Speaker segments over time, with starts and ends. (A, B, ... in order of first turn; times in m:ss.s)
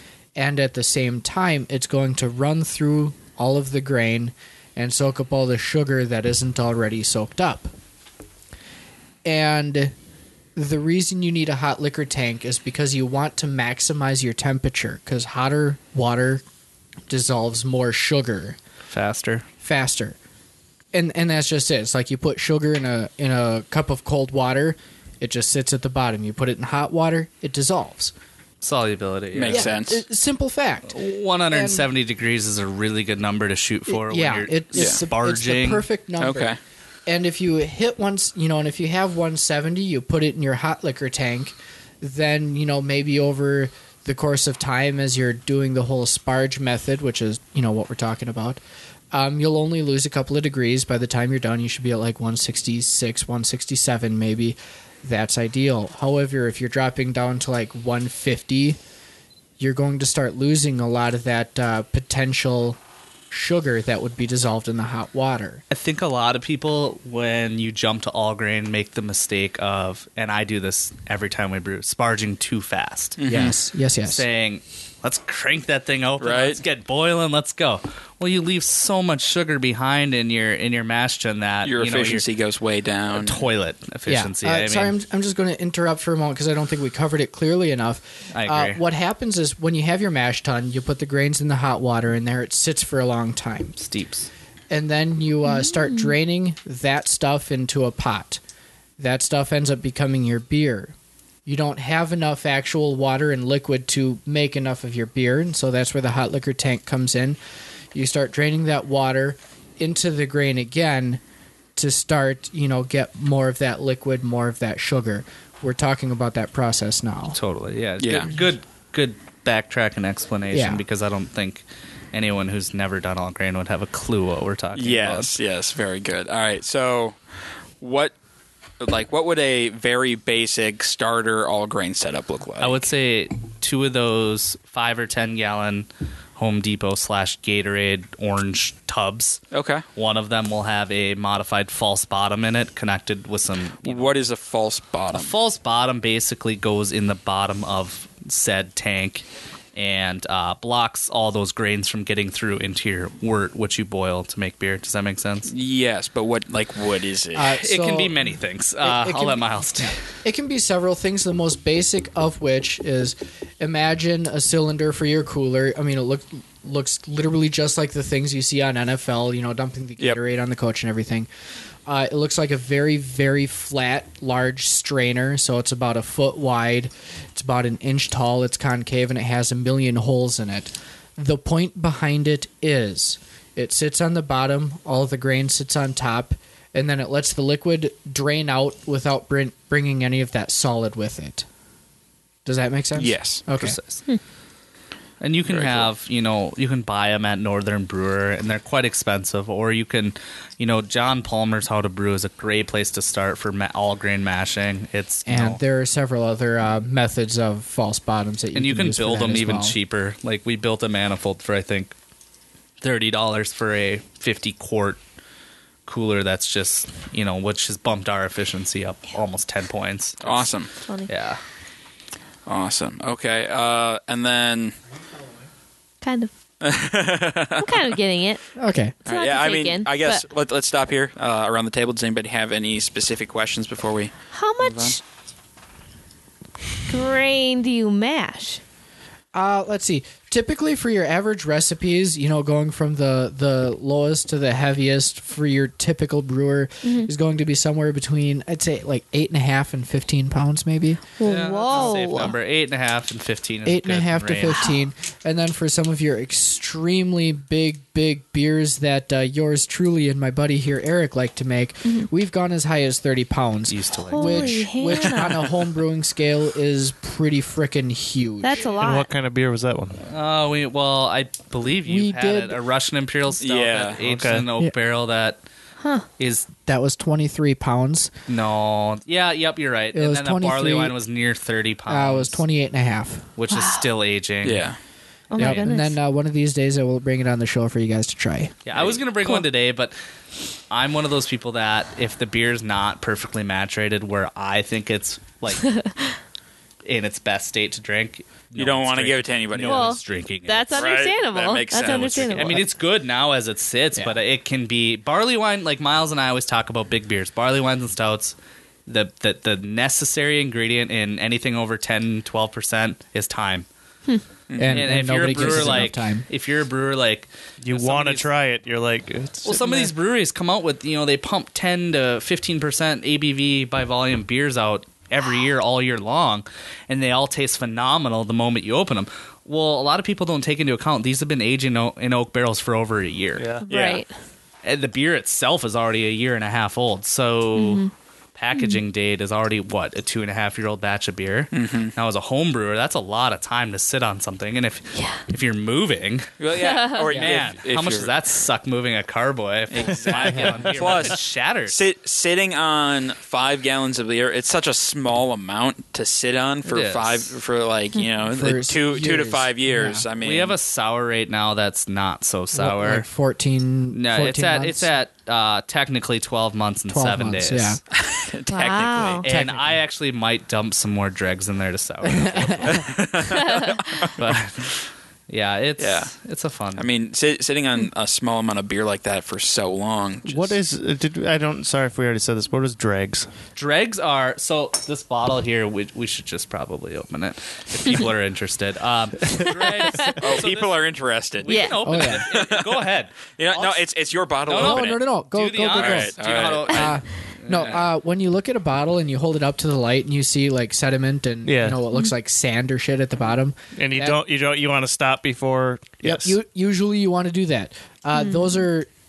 0:00.4-0:07.7 A
0:09.2-0:09.9 A
0:10.6-0:16.4 A
0:17.1-0:18.6 A
0:18.9-0:19.4 B
0:19.6-0:20.2 A
0:20.9-0:28.1 A
0:28.6-0:29.7 B
0:29.3-0:30.0 C
0:29.5-0:31.0 A
0:30.9-0:35.8 B
0:31.5-0:31.9 A
0:33.9-0:36.5 A
0:34.7-0:35.0 C
0:36.2-0:36.6 C
0:37.1-0:48.6 A
0:49.1-0:58.8 A
0:59.6-1:02.8 A
1:03.3-1:05.6 A
1:05.7-1:13.5 B
1:13.2-1:13.5 C
1:13.2-1:14.2 A
1:14.0-1:22.3 B
1:16.2-1:16.6 C
1:21.6-1:23.4 C
1:23.1-1:24.9 B
1:24.1-1:33.8 A
1:28.3-1:28.8 B
1:33.8-1:34.3 B
1:34.7-1:38.4 A
1:35.4-1:36.1 D
1:39.0-1:40.9 A
1:41.4-1:47.4 A
1:47.9-1:51.2 A
1:51.8-1:57.4 A
1:57.3-2:05.3 B
1:58.0-1:58.3 C
2:00.5-2:00.8 A
2:04.7-2:07.2 C
2:07.8-2:08.1 C
2:08.8-2:12.8 C
2:12.6-2:19.4 B
2:19.5-2:19.8 C
2:19.9-2:24.1 B
2:23.8-2:25.3 C
2:25.1-2:35.5 B
2:35.5-2:37.5 C
2:37.3-2:38.2 A
2:37.6-2:40.0 B
2:38.8-2:51.3 A
2:51.8-3:11.4 A
3:12.4-3:13.8 A
3:13.0-3:13.4 C
3:13.6-3:14.0 B
3:15.2-3:25.6 B
3:15.5-3:15.9 C
3:25.3-3:29.8 A
3:28.5-3:31.9 B
3:32.8-3:35.0 B
3:35.9-3:40.5 B
3:40.2-3:40.7 C
3:41.1-3:41.4 B
3:42.5-3:44.7 C
3:46.0-3:46.3 D
3:46.6-3:48.0 C
3:47.6-3:48.4 D
3:48.6-3:49.0 A
3:49.0-3:50.2 D
3:49.0-3:55.0 C
3:54.3-3:55.0 D
3:56.9-3:58.6 D
3:59.3-4:11.0 A
4:06.8-4:07.1 D
4:11.2-4:12.3 D
4:11.2-4:14.6 B
4:13.6-4:28.7 A
4:23.7-4:24.7 B
4:24.1-4:25.3 D
4:28.4-4:29.1 D
4:28.8-4:30.0 E
4:30.0-4:35.4 B
4:31.9-4:32.6 A
4:33.4-4:34.0 C
4:34.0-4:34.5 E
4:35.8-4:36.0 D
4:36.2-4:36.5 B
4:36.6-4:38.1 A
4:38.3-4:42.4 B
4:39.9-4:40.9 A
4:41.9-4:43.3 A
4:43.4-4:44.7 B
4:43.5-4:43.9 D
4:44.4-4:44.8 C
4:45.3-4:46.0 D
4:45.4-4:45.7 B
4:45.4-4:48.5 A
4:48.6-4:49.9 B
4:50.7-4:55.7 B
4:55.6-4:56.0 D
4:56.8-5:01.0 B
4:58.6-4:59.9 C
4:59.6-5:02.6 D
5:00.7-5:02.6 C
5:01.7-5:08.3 B
5:08.9-5:13.6 B
5:14.5-5:14.9 C
5:14.6-5:16.2 A
5:14.7-5:18.3 B
5:17.6-5:19.6 E
5:19.4-5:34.0 B
5:19.6-5:19.9 A
5:33.4-5:33.6 E
5:33.7-5:34.1 D
5:34.6-5:46.3 B
5:37.6-5:37.9 D
5:38.5-5:38.8 D
5:41.5-5:41.9 C
5:44.9-5:45.2 D
5:46.4-5:48.1 C
5:46.6-5:47.1 D
5:47.1-5:47.4 A
5:47.1-5:51.8 B
5:49.7-6:00.5 C
5:56.7-5:57.3 B
5:58.3-6:00.0 A
6:00.2-6:03.1 B
6:02.5-6:04.9 A
6:03.9-6:07.8 B
6:06.9-6:07.8 A
6:08.0-6:09.2 C
6:08.5-6:09.2 D
6:09.2-6:13.0 B
6:09.2-6:09.8 A
6:12.0-6:12.8 A
6:12.6-6:14.3 C
6:13.3-6:13.7 D
6:14.2-6:14.7 B
6:15.3-6:16.9 B
6:15.8-6:16.1 C
6:16.8-6:20.6 C
6:20.3-6:23.3 E
6:23.6-6:33.9 B
6:29.4-6:30.2 D
6:30.2-6:31.5 C
6:31.4-6:31.8 D
6:31.8-6:32.3 A
6:32.3-6:32.8 C
6:33.4-6:35.0 C
6:34.4-6:37.8 B
6:34.5-6:36.1 A
6:35.7-6:37.0 C
6:36.7-6:44.2 A
6:37.5-6:37.8 C
6:41.4-6:41.8 E
6:43.7-6:46.4 E
6:46.0-6:48.9 A
6:48.1-6:48.6 D